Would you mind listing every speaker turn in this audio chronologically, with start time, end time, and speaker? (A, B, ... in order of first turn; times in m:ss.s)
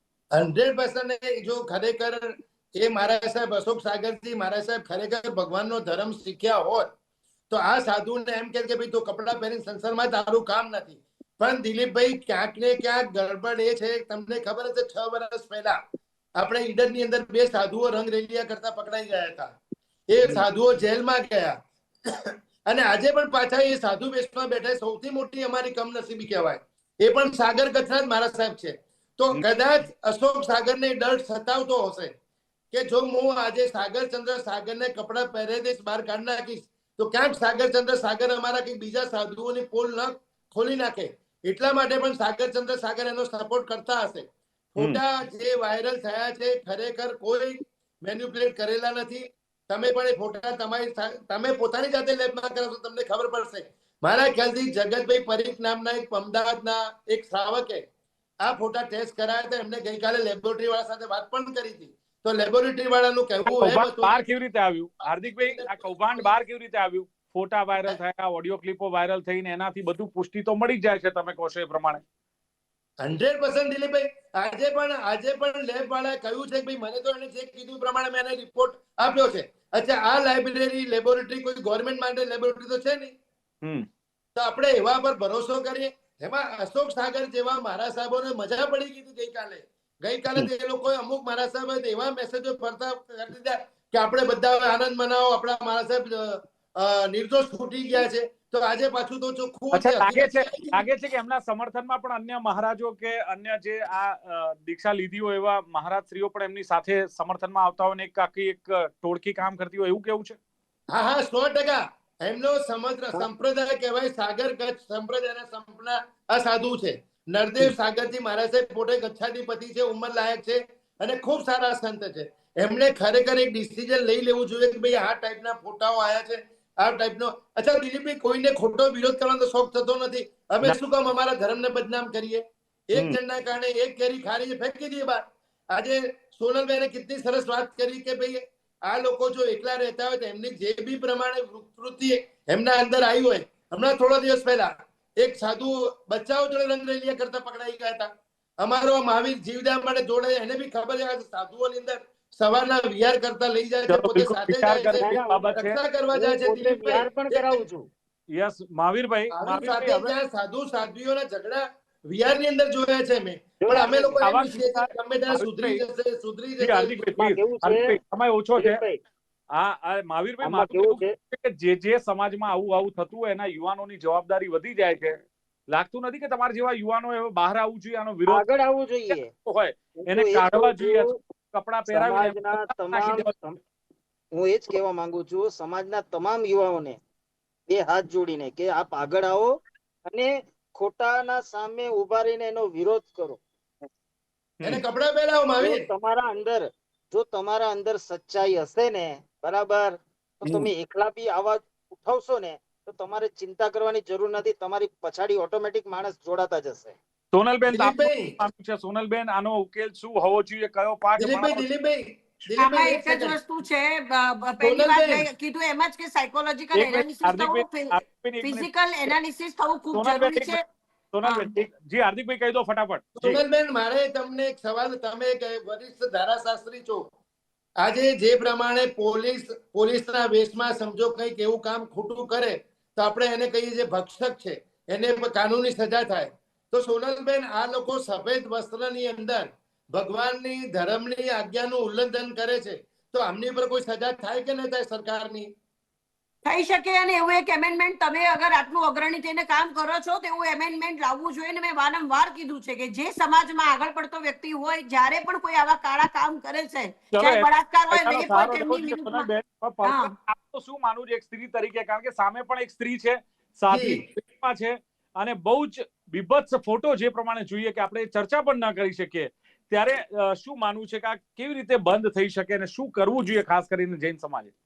0:00.4-0:06.9 A
0:07.5-0:15.8 A
0:16.4-0:19.5 A
0:20.1-0:21.6 A
0:22.7-0:32.1 A
0:32.7-0:57.8 A
0:58.4-1:04.2 A
1:03.5-1:12.0 B
1:05.4-1:06.3 A
1:13.0-1:23.1 A
1:24.4-1:40.8 A
1:39.7-1:50.4 B
1:50.9-2:28.1 A
2:28.6-2:35.0 A
2:33.9-2:35.8 B
2:34.9-2:35.5 C
2:35.6-2:37.6 A
2:36.1-2:37.9 C
2:38.3-2:40.1 B
2:39.3-2:47.0 A
2:43.6-2:44.2 C
2:44.2-2:45.8 B
2:46.6-2:48.8 B
2:47.2-2:48.0 C
2:48.6-2:49.0 C
2:49.6-2:55.2 B
2:50.4-2:51.1 C
2:55.7-2:58.4 B
2:58.3-2:59.3 C
2:59.1-3:03.3 B
3:00.0-3:01.2 C
3:01.9-3:03.6 C
3:04.4-3:07.0 C
3:07.7-3:13.4 C
3:14.6-3:15.9 A
3:15.6-3:27.0 C
3:27.3-3:31.6 B
3:27.7-3:28.4 A
3:31.2-3:33.4 A
3:32.6-3:40.6 D
3:34.6-3:35.3 A
3:36.8-3:39.1 B
3:40.0-3:40.6 B
3:41.1-3:43.4 B
3:41.2-3:41.5 D
3:43.2-3:47.0 A
3:47.8-4:05.5 A
4:06.4-4:19.3 D
4:17.2-4:34.5 B
4:19.8-4:20.1 D
4:23.7-4:24.0 A